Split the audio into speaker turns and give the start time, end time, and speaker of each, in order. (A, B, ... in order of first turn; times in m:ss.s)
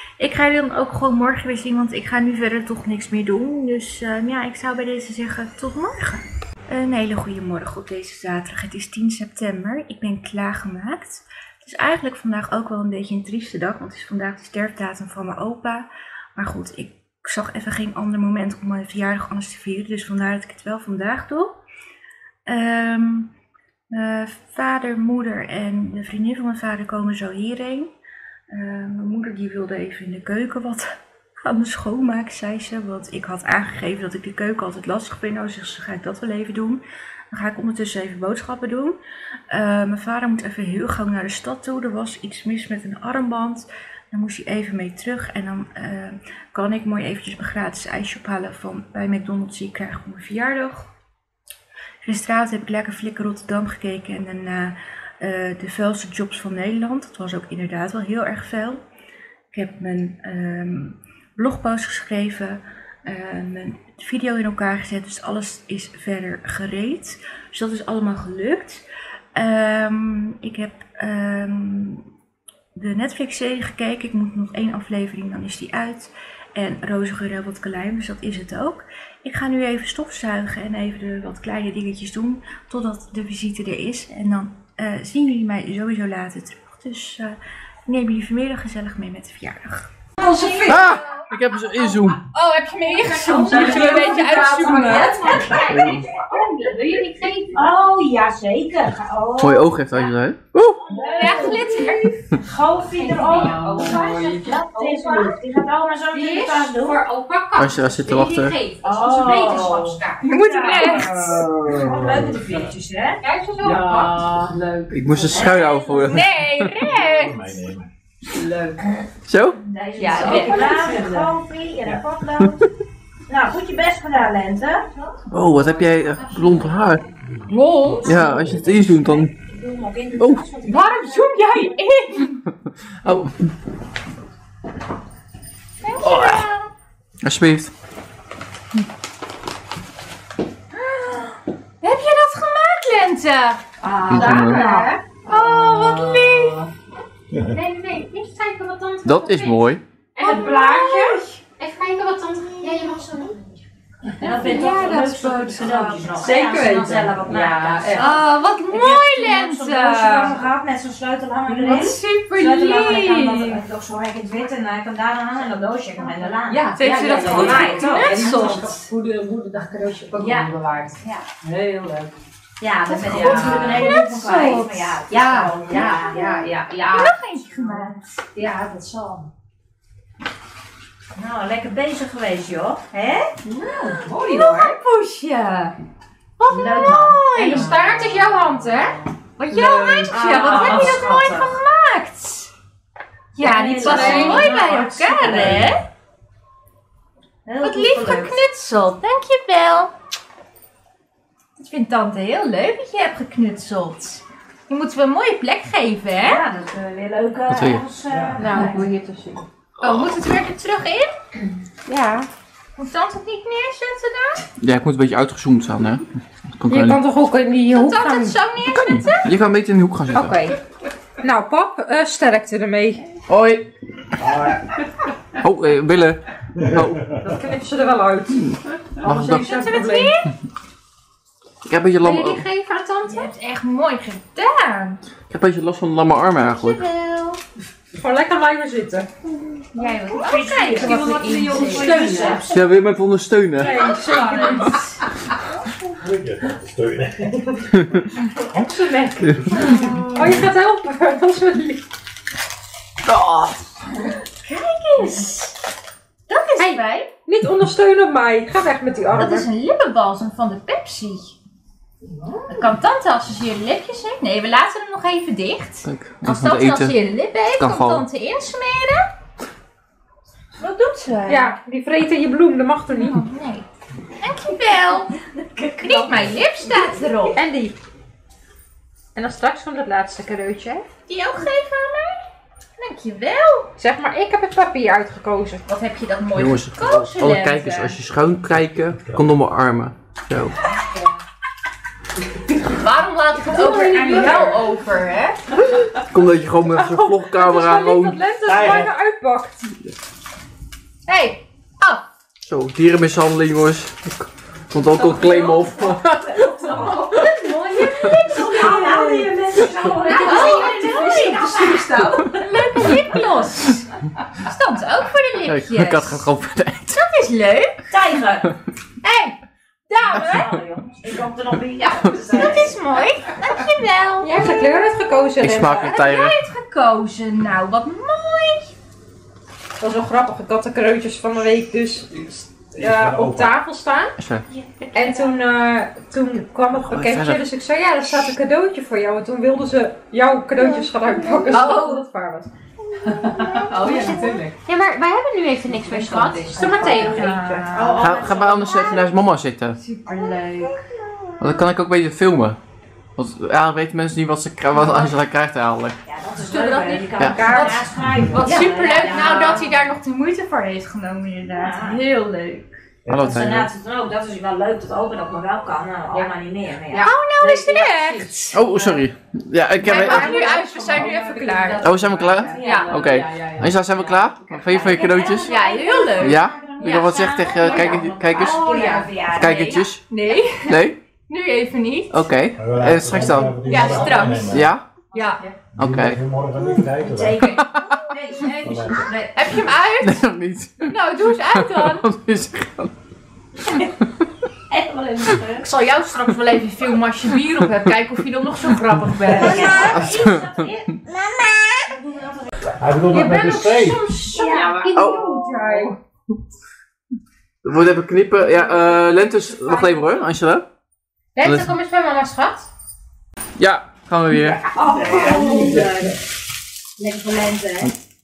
0:00.2-0:21.6 A
0:22.5-0:23.3 A
0:23.9-0:27.9 A
0:28.5-0:39.0 A
0:39.5-0:50.9 A
0:52.0-0:58.8 A
0:59.5-1:08.8 A
1:09.4-1:12.1 A
1:12.8-1:29.9 A
1:30.2-1:30.9 B
1:30.2-1:30.8 C
1:30.6-1:32.2 D
1:32.1-1:35.6 A
1:33.0-1:37.7 C
1:33.0-1:36.1 B
1:35.6-1:36.1 D
1:36.8-1:37.6 A
1:37.5-1:40.1 B
1:39.4-1:40.8 D
1:40.8-1:41.7 B
1:40.9-1:41.6 C
1:41.2-1:42.2 A
1:42.4-1:47.0 B
1:43.0-1:45.4 A
1:43.1-1:44.9 C
1:46.1-1:51.3 A
1:47.6-1:48.6 D
1:48.8-1:54.6 B
1:48.9-1:51.4 C
1:51.0-1:52.6 E
1:53.2-1:55.5 C
1:53.6-1:54.2 A
1:54.9-1:56.8 D
1:55.2-1:56.2 B
1:55.5-1:57.4 A
1:56.8-1:57.9 E
1:58.3-1:58.8 C
1:59.3-1:59.6 D
1:59.6-2:02.6 B
2:00.0-2:01.3 A
2:00.0-2:01.3 C
2:03.3-2:04.9 B
2:05.3-2:07.0 D
2:06.2-2:06.6 B
2:07.5-2:08.4 C
2:07.8-2:08.6 E
2:08.0-2:09.3 D
2:08.1-2:11.7 B
2:10.2-2:10.5 D
2:10.6-2:12.4 A
2:11.2-2:11.5 C
2:13.0-2:13.5 D
2:15.8-2:16.7 A
2:16.0-2:16.5 D
2:17.2-2:17.7 D
2:20.8-2:23.6 A
2:23.8-2:26.5 B
2:24.1-2:24.9 C
2:24.1-2:24.6 D
2:24.4-2:26.6 A
2:27.3-2:27.6 E
2:27.5-2:33.3 A
2:29.0-2:29.8 D
2:30.2-2:31.2 C
2:32.6-2:33.3 B
2:34.2-2:38.2 B
2:34.2-2:36.2 A
2:36.2-2:38.1 C
2:37.9-2:40.4 A
2:38.7-2:39.0 C
2:38.7-2:48.7 B
2:41.5-2:43.6 A
2:46.5-2:52.1 C
2:46.8-2:48.9 A
2:50.2-2:51.3 B
2:52.6-2:59.3 B
2:52.9-2:58.2 A
2:53.1-2:53.9 C
3:01.2-3:04.7 B
3:03.5-3:05.7 A
3:06.4-3:12.5 A
3:06.5-3:08.3 B
3:07.5-3:08.2 C
3:09.5-3:11.0 C
3:10.1-3:11.5 B
3:13.4-3:15.8 A
3:13.4-3:15.7 B
3:13.8-3:14.7 C
3:17.5-3:18.4 B
3:17.6-3:19.9 A
3:21.6-3:26.4 A
3:26.2-3:28.9 B
3:27.5-3:27.8 D
3:28.1-3:28.7 E
3:28.4-3:29.4 C
3:29.8-3:31.2 A
3:31.9-3:32.3 C
3:32.8-3:34.5 A
3:34.6-3:37.0 D
3:36.7-3:38.4 C
3:37.7-3:39.3 A
3:38.7-3:40.4 D
3:40.1-3:40.6 C
3:41.2-3:43.0 C
3:43.3-3:43.7 D
3:44.2-3:44.7 E
3:45.4-3:47.1 D
3:46.6-3:47.4 E
3:47.2-3:50.2 C
3:48.5-3:49.5 D
3:49.3-3:50.3 A
3:51.6-3:52.5 D
3:52.0-3:55.0 A
3:55.3-3:56.8 D
3:56.4-3:57.4 B
3:58.0-3:59.1 C
3:59.7-4:02.4 A
4:00.1-4:02.6 B
4:00.7-4:02.5 C
4:02.5-4:04.1 D
4:03.6-4:04.8 C
4:03.6-4:05.0 A
4:06.0-4:08.0 E
4:08.5-4:11.8 C
4:09.2-4:10.3 E
4:09.6-4:10.0 A
4:13.1-4:13.6 D
4:14.4-4:15.5 A
4:16.3-4:17.1 A
4:16.6-4:19.5 C
4:19.1-4:21.4 A
4:22.4-4:29.1 A
4:25.8-4:27.0 D
4:27.5-4:28.1 D
4:30.5-4:31.6 A
4:31.3-4:33.2 C
4:32.9-4:33.7 A
4:34.2-4:35.2 A
4:35.6-4:36.1 B
4:35.7-4:37.4 A
4:37.3-4:37.8 C
4:39.2-4:40.9 C
4:41.1-4:42.3 A
4:42.8-4:43.7 A
4:43.8-4:45.6 C
4:45.7-4:48.0 A
4:46.4-4:50.6 D
4:52.6-4:55.4 A
4:53.4-4:54.7 C
4:56.1-4:58.2 D
4:56.6-4:59.6 C
4:58.4-4:58.9 E
5:01.1-5:02.0 A
5:02.4-5:07.3 D
5:05.1-5:07.2 B
5:07.0-5:09.0 A
5:08.2-5:12.7 C
5:08.2-5:12.4 B
5:10.0-5:16.2 A
5:15.4-5:17.0 D
5:16.9-5:17.7 A
5:17.9-5:18.5 B
5:19.0-5:19.4 A
5:19.9-5:20.5 A
5:20.1-5:22.8 B
5:21.8-5:24.5 A
5:24.2-5:26.0 C
5:25.4-5:26.4 D
5:25.8-5:28.7 A
5:29.8-5:34.2 C
5:32.7-5:33.6 E
5:34.2-5:34.4 D
5:34.8-5:35.3 A
5:34.9-5:42.5 C
5:36.7-5:37.5 D
5:41.5-5:42.1 A
5:43.2-5:48.2 A
5:43.6-5:44.5 C
5:46.1-5:47.7 C
5:46.2-5:49.1 B
5:48.0-5:49.8 D
5:49.8-5:50.8 A
5:51.4-5:52.6 D
5:53.2-5:56.0 D
5:56.0-5:59.8 B
5:56.5-6:02.7 A
5:57.2-5:57.7 D
5:57.4-5:57.8 C
6:01.5-6:02.0 B
6:03.0-6:03.5 E
6:03.1-6:03.7 D
6:03.2-6:07.1 B
6:06.9-6:08.6 A
6:07.0-6:08.3 C
6:08.5-6:10.6 D
6:09.8-6:11.8 A
6:09.8-6:13.7 C
6:11.8-6:20.1 D
6:11.8-6:19.8 B
6:12.5-6:13.0 A
6:15.3-6:19.1 A
6:20.1-6:22.3 A
6:20.7-6:21.0 D
6:22.1-6:23.8 D
6:22.6-6:24.7 E
6:23.6-6:24.6 A
6:23.8-6:24.4 B
6:24.4-6:24.9 D
6:25.1-6:25.4 A
6:25.8-6:27.6 E
6:25.8-6:26.2 D
6:26.6-6:29.7 B
6:27.6-6:28.0 D
6:28.6-6:29.1 E
6:29.4-6:30.3 A
6:30.0-6:32.9 D
6:30.8-6:32.0 A
6:34.7-6:35.7 B
6:35.6-6:40.1 A
6:39.3-6:41.3 B
6:39.8-6:40.5 D
6:41.4-6:41.9 A
6:41.8-6:42.5 B
6:42.8-6:44.2 E
6:43.1-6:46.0 A
6:44.3-6:44.9 B
6:44.9-6:45.4 D
6:47.6-6:50.7 D
6:48.5-6:50.2 A
6:51.4-6:52.6 A
6:51.4-6:51.8 D
6:53.6-6:54.6 D
6:54.4-6:56.2 E
6:54.6-6:56.2 B
6:57.0-6:57.9 B